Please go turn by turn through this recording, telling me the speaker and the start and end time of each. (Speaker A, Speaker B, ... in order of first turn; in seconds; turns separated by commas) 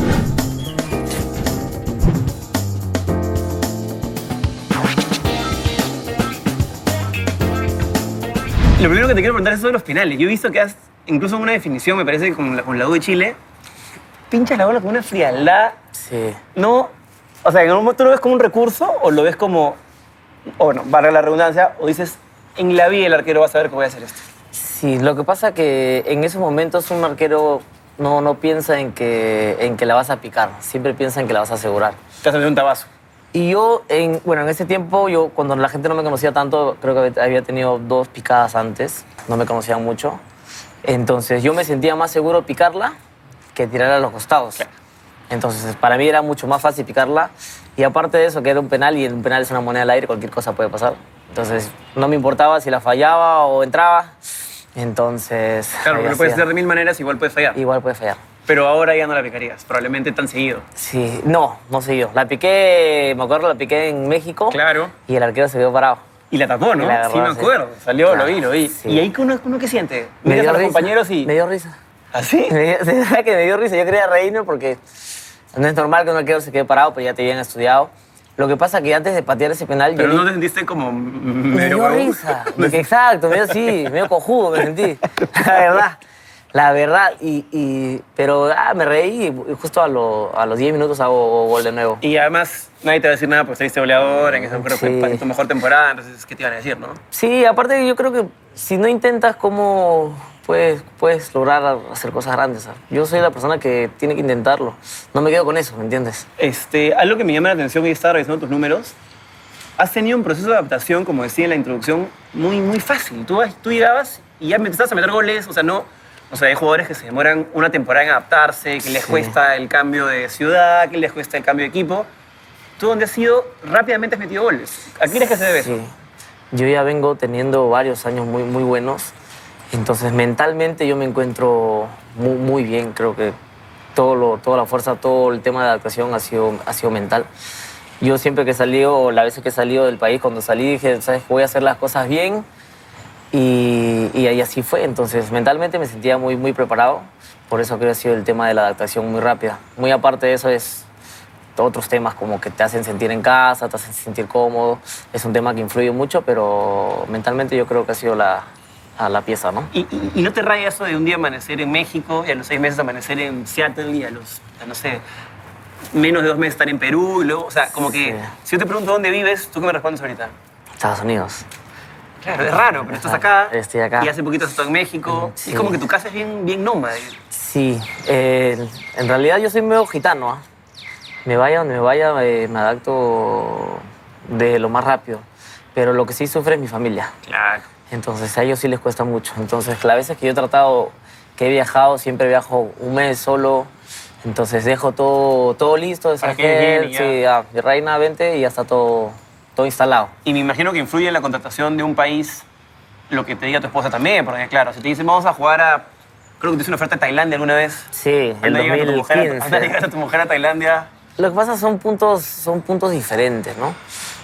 Speaker A: 8.8-13.4, Speaker A: 14.3-15.8, Speaker B: 15.9-16.4, Speaker A: 16.6-16.9, Speaker A: 17.4-19.8, Speaker A: 20.6-24.2, Speaker B: 24.5-32.0, Speaker A: 32.2-32.9, Speaker B: 33.3-40.2, Speaker B: 40.8-42.9, Speaker B: 43.5-44.6, Speaker B: 45.3-54.2, Speaker B: 54.8-56.5, Speaker A: 55.8-57.6, Speaker B: 57.5-58.2, Speaker A: 58.5-60.6, Speaker B: 60.8-66.0, Speaker A: 64.5-64.9, Speaker A: 66.3-71.3, Speaker B: 66.8-67.5, Speaker B: 68.1-69.1, Speaker B: 70.2-71.8, Speaker A: 72.1-72.6, Speaker B: 72.5-74.8, Speaker B: 75.5-80.3, Speaker A: 80.0-83.9, Speaker B: 81.5-86.0, Speaker A: 85.2-85.5, Speaker B: 86.5-92.0, Speaker A: 92.0-97.0, Speaker B: 94.3-95.2, Speaker B: 97.1-106.3, Speaker A: 106.4-109.0, Speaker A: 109.8-122.1, Speaker B: 118.8-119.4, Speaker A: 122.8-125.8, Speaker B: 125.4-125.9, Speaker B: 126.5-129.1, Speaker B: 129.7-133.4, Speaker B: 133.9-137.3, Speaker B: 138.0-142.5, Speaker B: 143.3-150.9, Speaker B: 151.6-159.7, Speaker A: 159.7-165.0, Speaker A: 165.9-170.3, Speaker B: 167.8-168.3, Speaker B: 170.8-171.5, Speaker A: 172.2-177.2, Speaker B: 172.8-174.1, Speaker B: 175.1-175.8, Speaker B: 177.3-180.4, Speaker B: 181.2-187.1, Speaker A: 187.3-187.7, Speaker B: 187.9-193.7, Speaker B: 194.2-200.1, Speaker A: 196.2-197.2, Speaker A: 200.2-202.4, Speaker A: 203.1-205.9, Speaker A: 206.4-207.9, Speaker B: 207.9-209.8, Speaker A: 208.4-210.9, Speaker B: 211.2-213.8